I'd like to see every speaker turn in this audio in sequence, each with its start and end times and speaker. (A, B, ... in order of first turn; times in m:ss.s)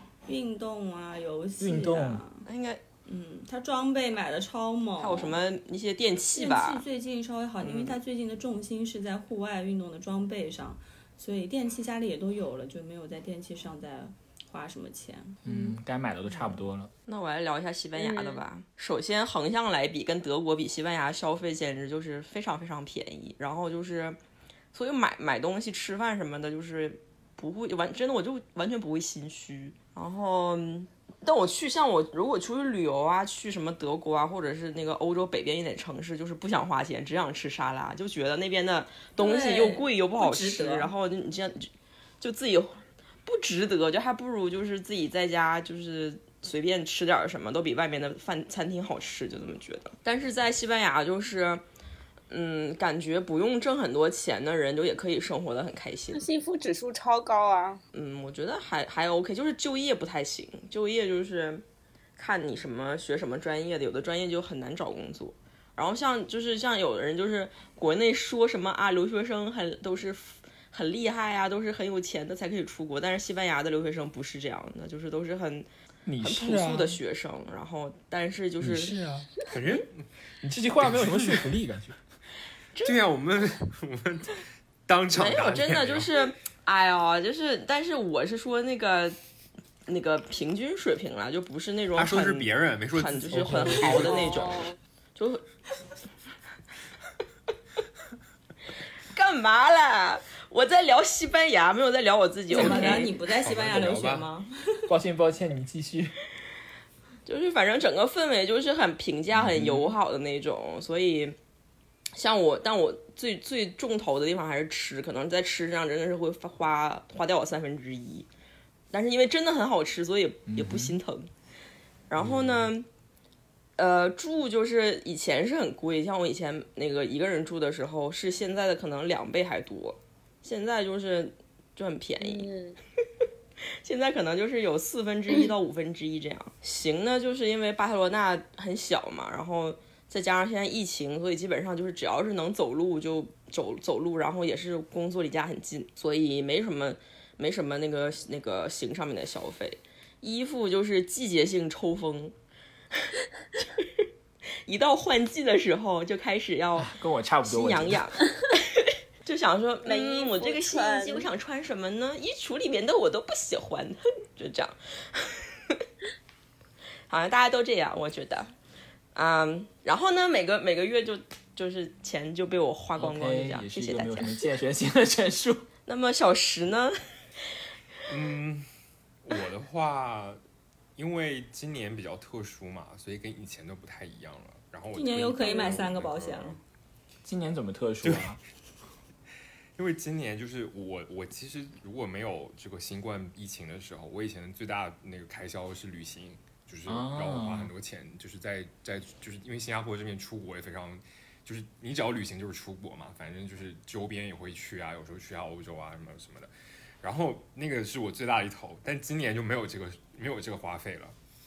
0:00.3-0:02.5 A
0:01.6-0:02.2 B
0:02.4-0:02.8 C
0:03.1-0:05.4 A
0:05.0-0:06.8 C
0:06.3-0:15.8 A
0:07.6-0:08.0 C
0:15.4-0:16.9 B
0:16.3-0:16.6 A
0:17.1-0:24.2 C
0:18.0-0:18.4 D
0:24.7-0:51.6 C
0:39.2-0:40.9 A
0:52.3-0:56.2 C
0:56.1-0:57.8 D
0:57.9-1:01.6 C
1:02.2-1:15.7 C
1:16.1-1:17.0 B
1:16.2-1:19.0 C
1:18.6-1:19.8 B
1:19.5-1:20.0 E
1:20.4-1:22.0 B
1:20.8-1:21.5 E
1:22.7-1:23.0 C
1:22.8-1:26.2 E
1:25.1-1:29.2 C
1:29.9-1:35.4 C
1:31.9-1:34.6 E
1:33.4-1:33.9 B
1:34.0-1:34.7 D
1:39.1-1:43.2 C
1:42.5-1:44.8 A
1:42.6-1:44.3 E
1:44.9-1:46.1 B
1:47.2-1:51.4 C
1:49.3-1:50.0 B
1:52.1-1:58.3 C
1:58.9-2:01.3 C
2:00.5-2:01.0 B
2:02.1-2:02.9 C
2:02.2-2:02.7 B
2:03.8-2:12.5 C
2:12.2-2:12.8 D
2:13.8-2:32.3 C
2:32.9-2:34.1 C
2:34.6-2:45.8 C
2:36.8-2:38.1 B
2:39.8-2:41.3 D
2:47.1-2:48.5 C
2:49.1-2:54.3 C
2:53.0-2:55.6 B
2:55.9-2:57.0 C
2:58.1-2:58.7 E
2:59.2-3:00.4 E
3:01.0-3:06.6 E
3:04.9-3:06.6 A
3:07.2-3:08.4 B
3:08.0-3:08.4 E
3:09.8-3:26.5 E
3:16.9-3:17.7 B
3:27.0-3:31.2 E